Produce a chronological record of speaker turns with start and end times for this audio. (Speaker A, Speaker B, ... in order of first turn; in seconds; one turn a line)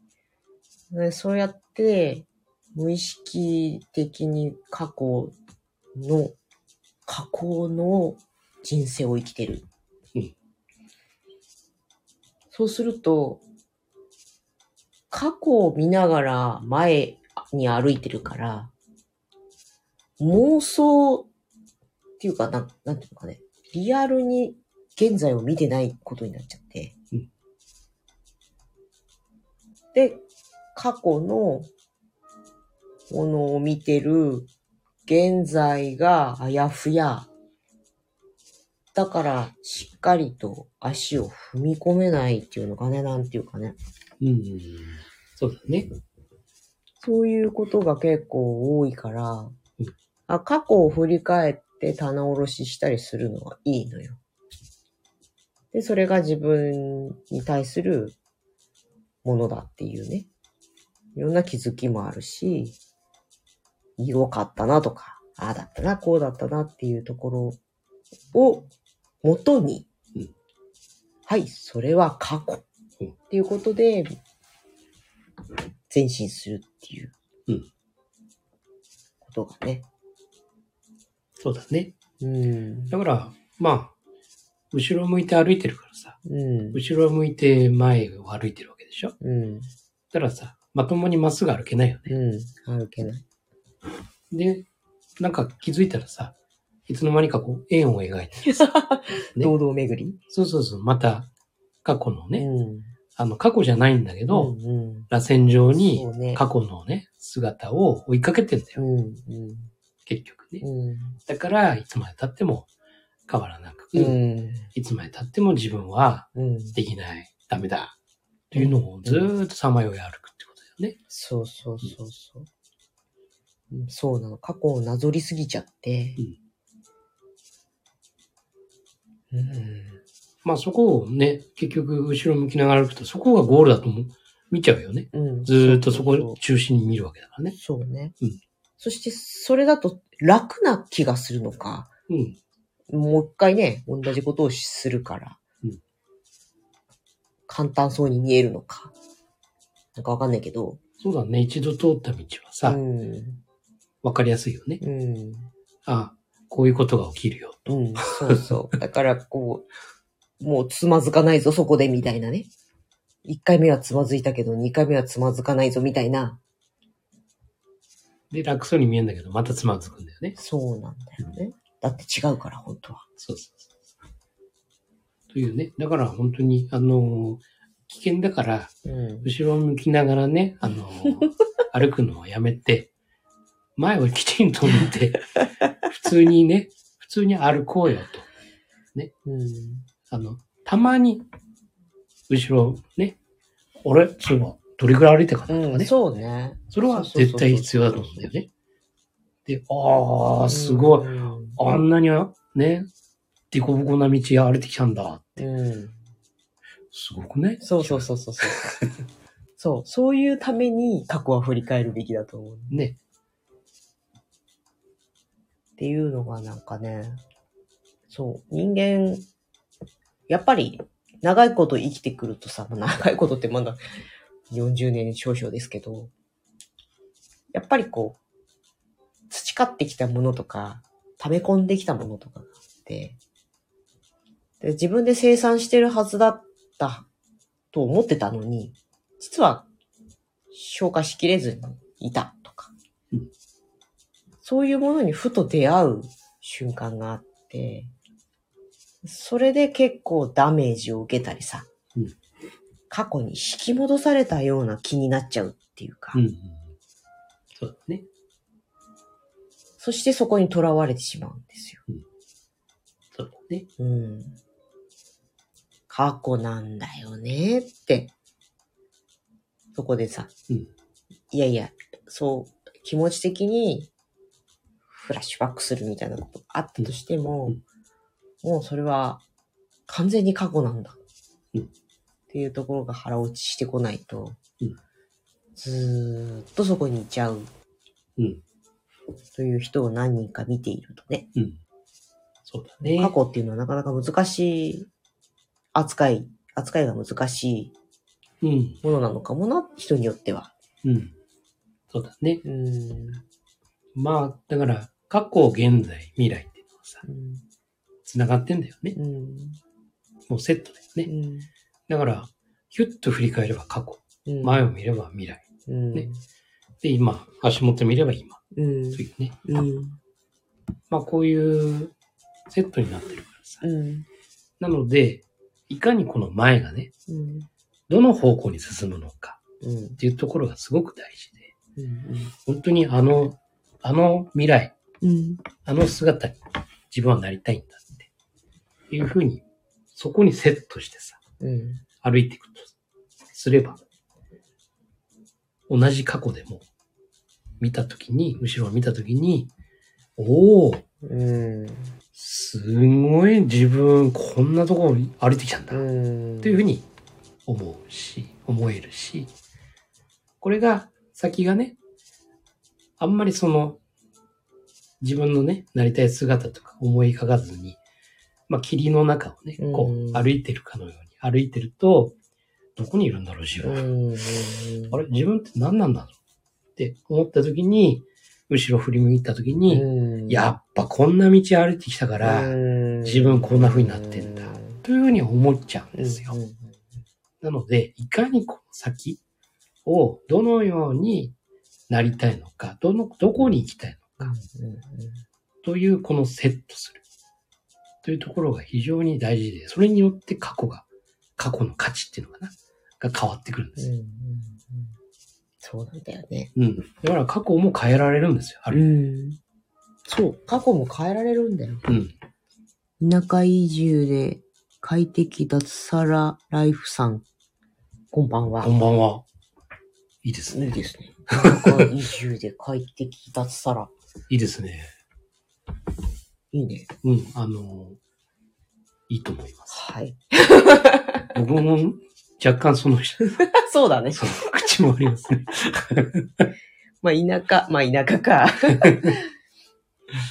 Speaker A: 0.9-5.3
Speaker A: 6.0-6.4
Speaker A: 7.1-9.7
Speaker A: 12.5-13.4
Speaker A: 15.1-18.7
Speaker A: 20.2-21.3
Speaker A: 22.2-26.9
Speaker A: 29.9-30.2
Speaker A: 30.8-31.7
Speaker A: 33.1-34.5
Speaker A: 35.1-37.3
Speaker A: 38.9-43.8
Speaker B: 44.2-45.9
Speaker A: 47.0-49.6
Speaker A: 50.3-54.2
Speaker A: 55.7-58.2
Speaker A: 59.2-60.3
Speaker A: 61.1-62.8
Speaker A: 64.0-67.6
Speaker A: 68.3-68.7
Speaker A: 69.2-69.9
Speaker A: 71.3-72.7
Speaker A: 73.3-74.2
Speaker A: 75.9-77.1
Speaker A: 79.2-79.9
Speaker B: 81.4-82.0
Speaker A: 82.2-83.0
Speaker B: 82.9-83.9
Speaker B: 84.7-86.2
Speaker A: 86.2-86.8
Speaker B: 86.7-89.2
Speaker A: 89.2-89.7
Speaker B: 90.1-92.2
Speaker A: 92.1-93.2
Speaker B: 94.3-94.7
Speaker B: 95.2-96.3
Speaker B: 96.9-98.5
Speaker A: 98.4-100.2
Speaker B: 100.3-101.3
Speaker B: 101.8-102.5
Speaker A: 102.3-102.9
Speaker B: 103.2-104.5
Speaker A: 104.3-105.1
Speaker B: 105.1-108.8
Speaker A: 105.7-106.4
Speaker A: 108.8-109.7
Speaker B: 110.1-110.6
Speaker A: 110.6-111.2
Speaker B: 111.3-112.7
Speaker B: 113.3-114.2
Speaker A: 114.0-114.7
Speaker B: 114.7-118.0
Speaker A: 116.3-116.8
Speaker B: 118.5-121.0
Speaker A: 118.5-119.3
Speaker A: 121.1-122.5
Speaker A: 123.7-126.2
Speaker A: 129.3-130.0
Speaker B: 130.4-137.6
Speaker A: 135.1-136.4
Speaker A: 137.5-138.2
Speaker A: 138.8-141.9
Speaker B: 142.1-142.4
Speaker A: 142.9-145.4
Speaker A: 147.5-148.9
Speaker A: 150.0-150.8
Speaker B: 151.0-152.8
Speaker A: 152.6-153.4
Speaker B: 154.0-154.8
Speaker A: 154.8-155.5
Speaker B: 155.9-158.5
Speaker A: 157.7-159.7
Speaker A: 160.4-162.5
Speaker A: 163.2-166.4
Speaker B: 168.3-170.4
Speaker A: 170.4-173.1
Speaker B: 173.2-173.8
Speaker B: 175.3-182.9
Speaker A: 178.8-179.3
Speaker B: 183.8-188.3
Speaker A: 189.2-189.9
Speaker B: 190.1-191.2
Speaker B: 192.3-193.2
Speaker B: 193.8-195.9
Speaker A: 195.5-198.3
Speaker B: 196.7-198.5
Speaker B: 199.5-202.9
Speaker A: 200.5-201.6
Speaker B: 203.5-205.4
Speaker A: 205.4-206.0
Speaker B: 206.9-208.9
Speaker A: 207.6-208.8
Speaker A: 209.6-212.9
Speaker B: 212.7-213.0
Speaker A: 215.8-217.2
Speaker A: 218.1-219.2
Speaker A: 220.3-223.8
Speaker A: 224.5-226.1
Speaker A: 227.5-228.2
Speaker A: 229.3-233.2
Speaker A: 234.6-237.1
Speaker A: 237.7-239.7
Speaker A: 240.5-242.7
Speaker A: 244.4-247.9
Speaker A: 249.0-251.7
Speaker A: 252.9-256.2
Speaker B: 256.1-256.6
Speaker B: 257.5-258.1
Speaker A: 259.8-261.8
Speaker B: 263.1-263.7
Speaker A: 263.8-264.4
Speaker A: 265.9-268.1
Speaker A: 269.8-270.3
Speaker A: 271.3-273.9
Speaker A: 274.9-277.6
Speaker A: 278.4-279.2
Speaker A: 279.9-281.0
Speaker A: 282.3-284.4
Speaker A: 285.6-287.5
Speaker B: 288.2-288.4
Speaker A: 289.4-291.3
Speaker B: 292.4-293.1
Speaker A: 292.8-294.9
Speaker A: 295.8-297.7
Speaker B: 298.4-298.8
Speaker A: 298.8-300.5
Speaker B: 300.8-301.1
Speaker B: 301.9-302.4
Speaker A: 302.4-303.2
Speaker B: 303.9-307.0
Speaker A: 307.0-307.4
Speaker B: 308.1-309.0
Speaker A: 308.9-309.6
Speaker B: 310.3-311.1
Speaker A: 311.1-311.5
Speaker B: 311.9-316.1
Speaker A: 314.3-314.6
Speaker A: 315.7-316.2
Speaker B: 316.8-318.4
Speaker A: 318.5-320.0
Speaker B: 318.9-319.4
Speaker B: 320.9-321.9
Speaker B: 322.5-323.6
Speaker A: 323.6-324.1
Speaker B: 324.6-326.9
Speaker A: 327.1-327.5
Speaker B: 327.9-329.4
Speaker A: 329.6-330.0
Speaker B: 330.0-331.5
Speaker A: 331.8-332.3
Speaker B: 332.4-334.7
Speaker A: 335.0-335.4
Speaker B: 335.6-336.4
Speaker B: 336.9-338.1
Speaker B: 338.9-341.2
Speaker A: 341.4-341.8
Speaker B: 342.0-342.7
Speaker B: 343.3-343.8
Speaker B: 345.7-346.6
Speaker B: 347.6-349.5
Speaker B: 350.2-350.8
Speaker A: 351.0-352.0
Speaker B: 352.1-355.9
Speaker A: 355.7-356.6
Speaker B: 356.4-356.9
Speaker B: 357.5-359.3
Speaker B: 360.4-361.8
Speaker B: 363.0-363.8
Speaker B: 365.0-367.8
Speaker B: 368.5-372.1
Speaker A: 369.6-370.3
Speaker B: 372.8-373.9
Speaker A: 373.6-375.0
Speaker B: 374.9-376.1
Speaker B: 376.8-386.4
Speaker A: 379.7-380.5
Speaker A: 382.2-384.8
Speaker A: 385.9-386.8
Speaker B: 387.4-389.2
Speaker B: 389.9-391.4
Speaker B: 391.9-394.3
Speaker A: 394.2-395.2
Speaker B: 395.6-397.0
Speaker B: 398.0-400.9
Speaker B: 401.4-403.9
Speaker A: 403.8-404.9
Speaker A: 405.6-406.5
Speaker B: 406.6-408.8
Speaker A: 408.7-409.4
Speaker A: 410.1-411.9
Speaker B: 411.9-412.1
Speaker A: 413.0-417.2
Speaker A: 418.1-418.7
Speaker B: 418.6-419.2
Speaker B: 420.2-420.8
Speaker A: 420.5-423.9
Speaker B: 421.3-421.9
Speaker B: 424.3-424.9
Speaker A: 426.5-426.9
Speaker B: 427.0-428.0
Speaker B: 429.1-429.8
Speaker A: 429.7-431.3
Speaker B: 431.3-433.4
Speaker A: 433.2-434.5
Speaker B: 434.1-436.5
Speaker A: 437.0-439.3